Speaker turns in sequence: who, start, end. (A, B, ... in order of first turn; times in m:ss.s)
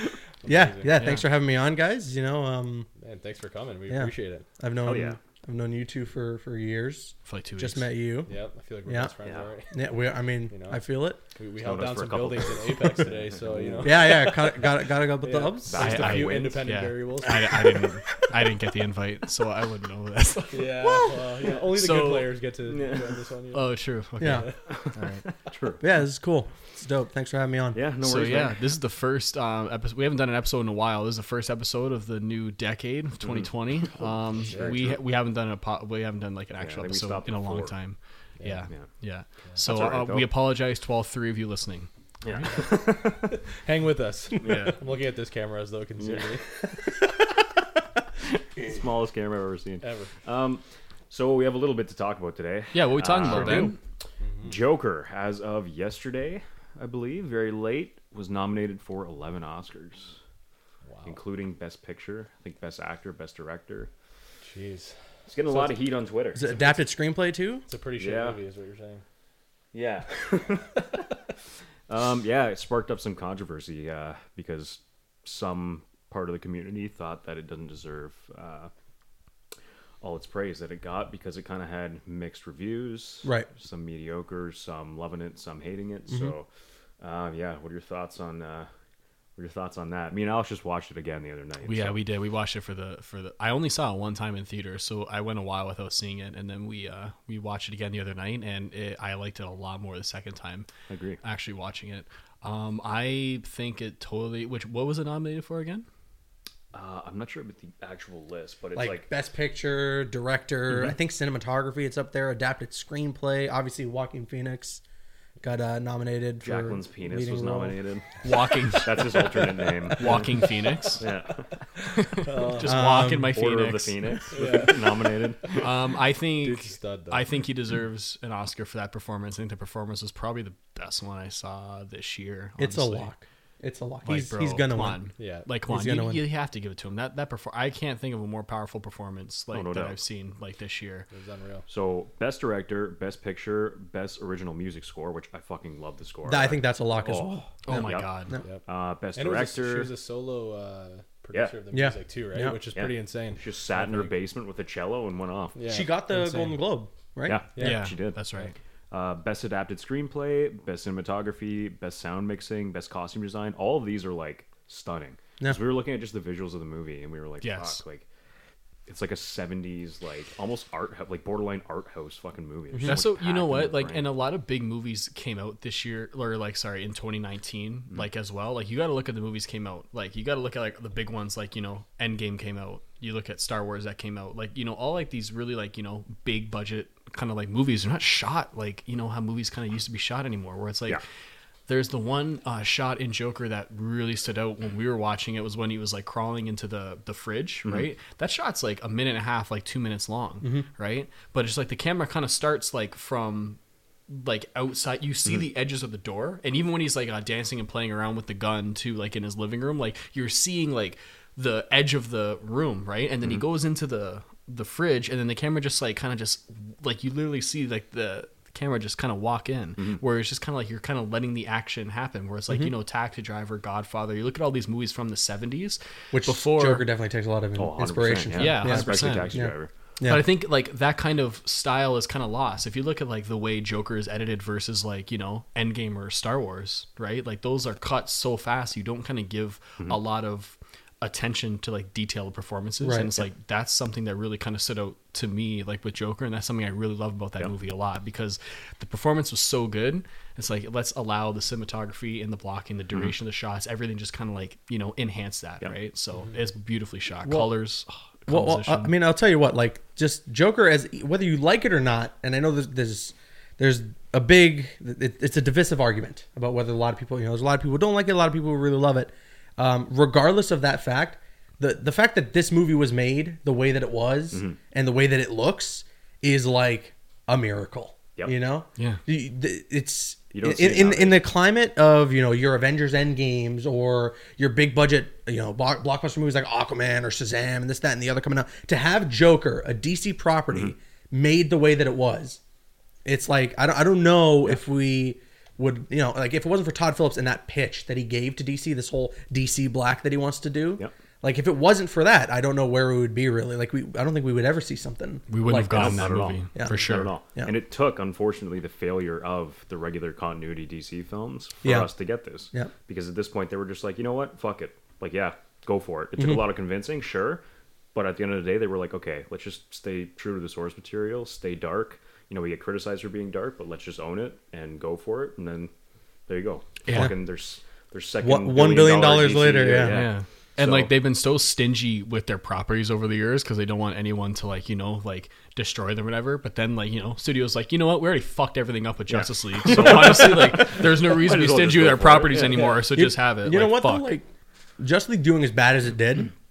0:00.4-0:00.9 A
0:00.4-0:02.9 B
0:01.0-0:01.3 C
0:03.0-0:04.5 A
0:03.9-0:08.3 B
0:04.8-0:05.2 D
0:07.2-0:07.9 C
0:08.3-0:09.8 A
0:08.8-0:09.1 B
0:09.2-0:09.5 D
0:09.7-0:11.2 B
0:10.5-0:10.8 A
0:11.4-0:14.7 A
0:11.6-0:14.1 D
0:13.8-0:16.0 B
0:15.2-0:17.6 A
0:15.6-0:16.7 D
0:15.8-0:22.3 C
0:20.5-0:23.7 A
0:22.6-0:23.2 D
0:23.5-0:25.2 C
0:24.2-0:24.5 B
0:24.2-0:24.5 A
0:24.7-0:24.9 D
0:25.5-0:25.8 D
0:25.8-0:27.8 B
0:27.7-0:28.6 D
0:28.0-0:41.9 C
0:33.2-0:35.0 D
0:34.5-0:34.9 A
0:36.6-0:37.7 D
0:38.4-0:38.6 A
0:39.6-0:40.3 D
0:42.2-0:43.0 D
0:42.5-0:46.4 A
0:44.4-0:44.8 C
0:46.0-0:46.4 D
0:48.6-0:53.7 D
0:49.8-0:50.1 A
0:52.7-0:53.8 C
0:53.3-0:53.7 A
0:54.2-0:54.6 A
0:54.4-1:00.2 D
1:00.8-1:01.2 A
1:01.0-1:03.9 D
1:04.4-1:04.9 A
1:05.3-1:06.7 D
1:05.4-1:05.8 A
1:06.3-1:07.7 B
1:07.7-1:09.0 A
1:08.0-1:08.4 D
1:09.7-1:11.0 D
1:11.9-1:18.7 D
1:20.0-1:26.5 D
1:23.2-1:23.5 B
1:26.1-1:26.3 B
1:27.0-1:28.7 D
1:29.4-1:32.0 D
1:31.6-1:40.7 C
1:40.9-1:41.2 D
1:41.2-1:45.8 C
1:46.7-1:49.1 D
1:48.7-1:54.8 B
1:50.7-1:50.9 D
1:55.4-1:57.8 B
1:56.4-1:58.2 D
1:58.2-1:59.3 C
1:58.7-2:00.2 D
2:00.0-2:01.1 C
2:00.0-2:00.9 A
2:01.0-2:01.4 D
2:01.9-2:04.0 C
2:02.2-2:02.8 A
2:02.6-2:03.3 B
2:03.3-2:05.7 D
2:04.3-2:05.5 A
2:05.5-2:13.1 C
2:06.4-2:07.2 A
2:12.6-2:15.0 B
2:14.0-2:21.1 C
2:15.2-2:15.5 A
2:15.7-2:16.2 B
2:19.5-2:20.0 D
2:21.1-2:21.6 A
2:21.7-2:28.1 D
2:26.2-2:28.4 B
2:27.6-2:28.3 C
2:28.4-2:28.6 A
2:28.6-2:29.9 D
2:29.1-2:34.1 A
2:31.7-2:32.6 B
2:32.7-2:35.6 D
2:35.5-2:36.6 A
2:35.6-2:37.7 B
2:37.2-2:38.2 D
2:37.6-2:38.5 C
2:38.9-2:48.1 D
2:47.4-2:47.8 C
2:48.9-2:54.0 D
2:52.7-2:53.0 B
2:52.8-3:11.0 C
3:11.7-3:23.6 C
3:20.4-3:20.7 B
3:24.1-3:46.8 C
3:46.1-3:50.2 B
3:47.6-3:49.7 D
3:48.3-3:49.4 C
3:50.0-4:18.9 C
4:02.8-4:03.2 B
4:17.2-4:17.5 B
4:18.3-4:52.4 B
4:34.3-4:34.6 D
4:40.3-4:41.3 D
4:53.0-5:07.5 B
5:05.3-5:07.1 C
5:05.7-5:17.4 D
5:11.6-5:11.9 B
5:16.2-5:16.4 B
5:17.9-5:25.7 D
5:26.3-5:30.9 D
5:26.8-5:27.1 C
5:28.2-5:30.0 B
5:29.9-5:44.2 C
5:39.1-5:42.8 D
5:42.7-5:44.3 B
5:44.8-5:46.3 B